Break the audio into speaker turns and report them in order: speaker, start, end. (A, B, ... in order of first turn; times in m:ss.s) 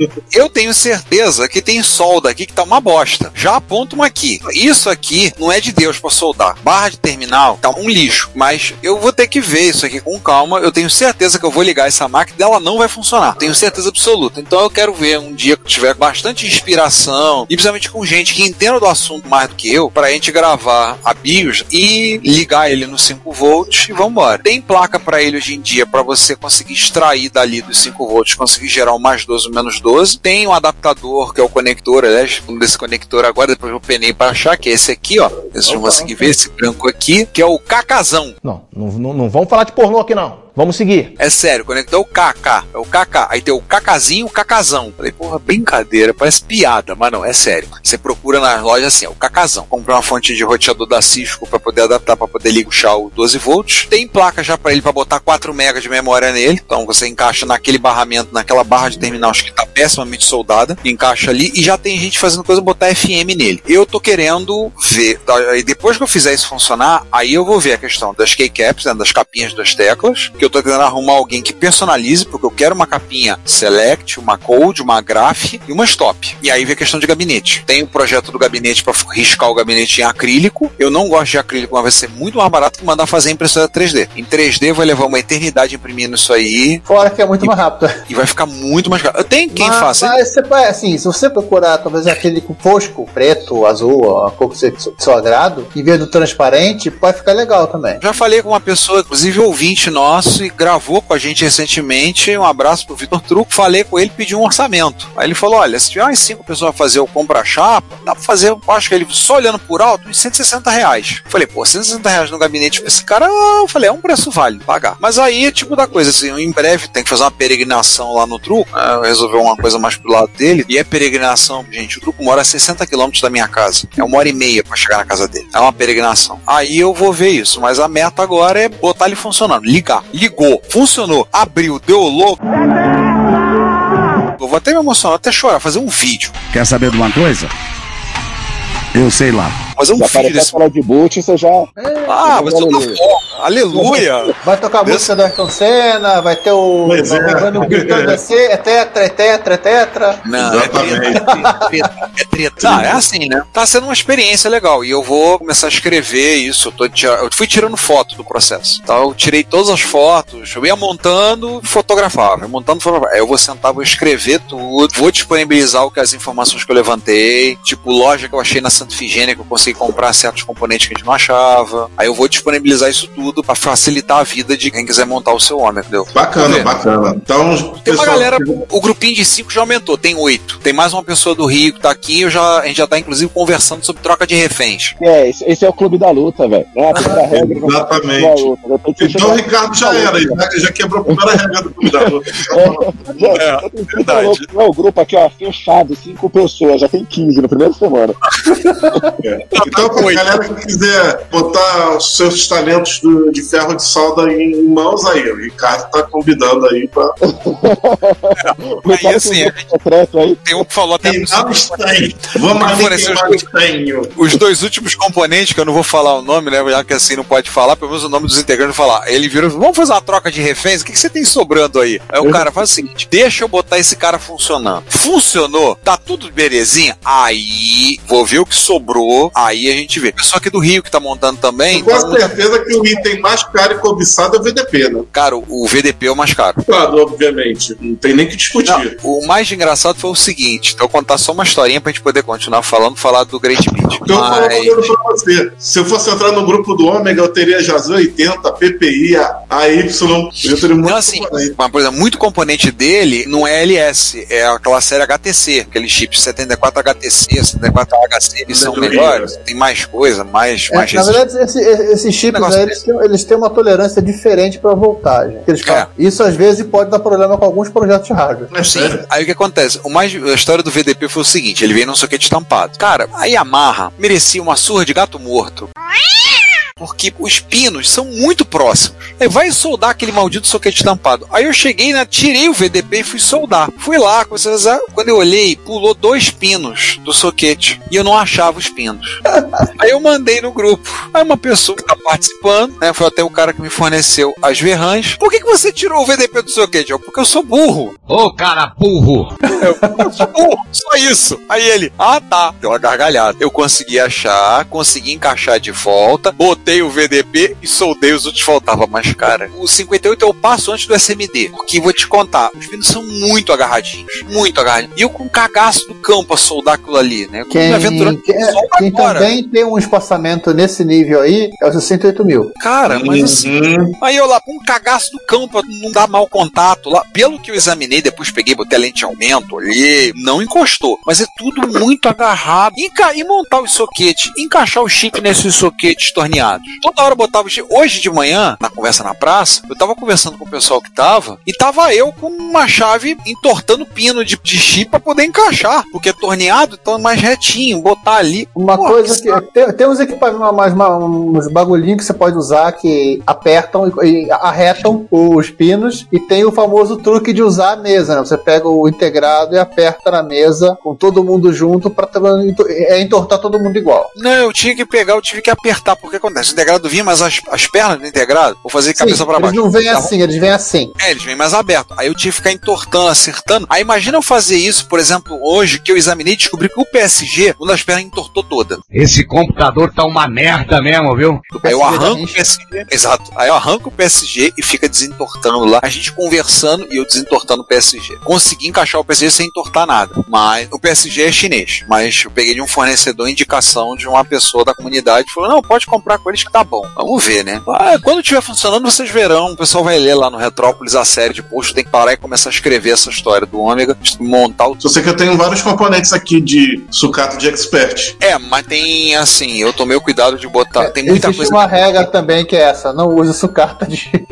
0:00.3-0:38.4 A
0:35.7-0:36.3 B
0:38.4-0:41.1 B
0:41.2-1:26.8 A
1:26.9-1:27.9 C
1:28.1-1:30.2 A
1:29.5-1:38.0 C
1:38.0-2:12.4 A
2:14.4-2:16.4 A
2:19.8-2:20.6 A
2:20.0-2:21.7 D
2:21.8-2:22.3 C
2:22.1-2:24.3 A
2:22.3-2:23.0 D
2:23.7-2:24.1 D
2:24.4-2:30.2 C
2:24.8-2:25.1 A
2:26.9-2:28.2 E
2:30.2-2:56.7 A
2:30.4-2:31.2 E
2:31.3-2:31.6 C
2:32.6-2:33.0 E
2:56.1-2:58.5 E
2:57.8-3:05.0 A
3:05.0-3:10.4 D
3:07.3-3:08.5 E
3:09.0-3:13.0 E
3:11.1-3:11.4 D
3:12.0-3:18.2 D
3:13.3-3:14.5 A
3:19.2-3:27.1 E
3:19.6-3:20.2 A
3:27.4-3:30.4 D
3:28.4-3:29.7 A
3:30.4-3:33.4 A
3:31.0-3:34.1 E
3:34.2-3:52.3 A
3:51.7-3:55.1 E
3:55.1-3:56.6 A
3:56.7-3:58.9 E
3:58.7-4:04.9 A
4:04.0-4:11.5 E
4:10.8-4:21.2 A
4:18.5-4:19.3 E
4:20.7-4:28.5 C
4:22.3-4:22.8 A
4:28.5-4:29.0 E
4:28.7-4:35.7 A
4:36.8-4:49.2 A
4:49.3-4:49.6 C
4:49.8-4:58.0 A
4:58.1-4:59.3 F
4:59.5-5:19.3 A
5:17.5-5:22.5 C
5:22.6-5:49.4 A
5:22.9-5:23.9 E
5:48.6-6:04.1 C
6:04.2-6:10.1 A
6:09.0-6:10.9 C
6:11.0-6:18.8 A
6:18.9-6:21.5 F
6:21.6-6:22.4 C
6:21.6-6:44.8 A
6:44.8-6:48.2 E
6:48.2-6:51.6 A
6:50.8-6:54.2 C